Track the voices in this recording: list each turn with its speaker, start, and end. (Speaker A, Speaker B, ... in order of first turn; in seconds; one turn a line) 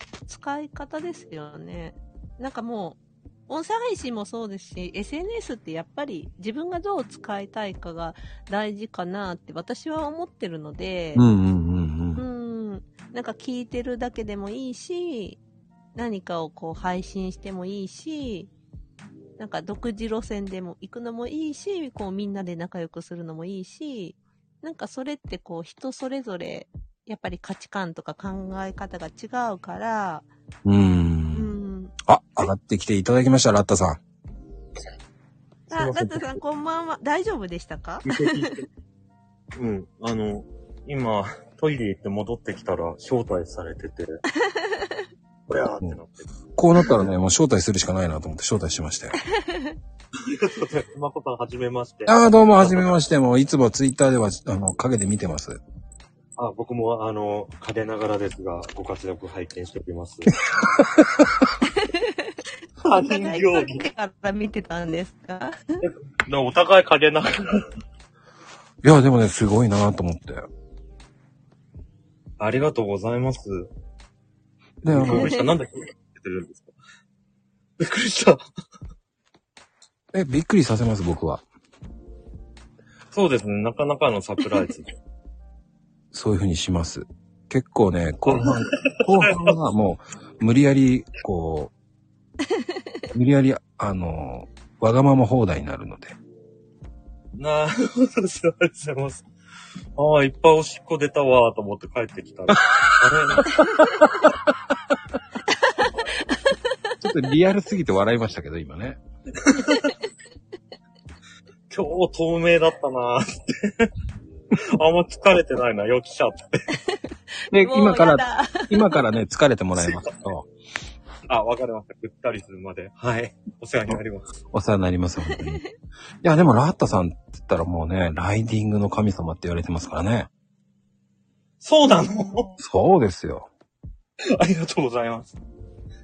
Speaker A: 0.3-11.2
Speaker B: 11.1-12.2
Speaker A: 12.2-15.4
Speaker A: 15.9-18.5
Speaker A: 19.4-30.2
Speaker B: 30.6-31.5
Speaker A: 31.3-31.9
Speaker B: 32.0-34.0
Speaker C: 35.7-36.4
Speaker A: 35.7-38.5
Speaker C: 38.0-38.6
Speaker C: 39.5-44.2
Speaker A: 44.5-45.0
Speaker C: 45.5-46.2
Speaker B: 46.5-49.2
Speaker A: 49.4-49.7
Speaker C: 50.2-52.9
Speaker B: 52.1-55.6
Speaker C: 56.4-60.4
Speaker B: 60.5-61.4
Speaker A: 61.8-62.3
Speaker C: 62.8-63.8
Speaker A: 62.9-65.5
Speaker C: 65.8-67.6
Speaker B: 68.8-70.5
Speaker C: 72.4-73.7
Speaker B: 74.8-75.3
Speaker C: 74.8-76.7
Speaker A: 75.1-75.4
Speaker C: 77.8-78.4
Speaker B: 80.1-81.4
Speaker C: 83.1-84.9
Speaker B: 86.1-91.7
Speaker C: 88.3-89.5
Speaker B: 93.1-96.2
Speaker C: 97.3-99.2
Speaker C: 100.0-103.6
Speaker B: 102.5-104.1
Speaker B: 107.0-109.0
Speaker C: 109.5-109.9
Speaker C: 111.7-113.9
Speaker C: 114.5-116.6
Speaker B: 117.5-120.5
Speaker A: 117.5-119.0
Speaker C: 119.8-120.1
Speaker C: 121.3-124.3
Speaker B: 124.5-125.6
Speaker B: 126.2-130.3
Speaker C: 131.6-132.5
Speaker B: 132.6-133.5
Speaker C: 134.3-135.3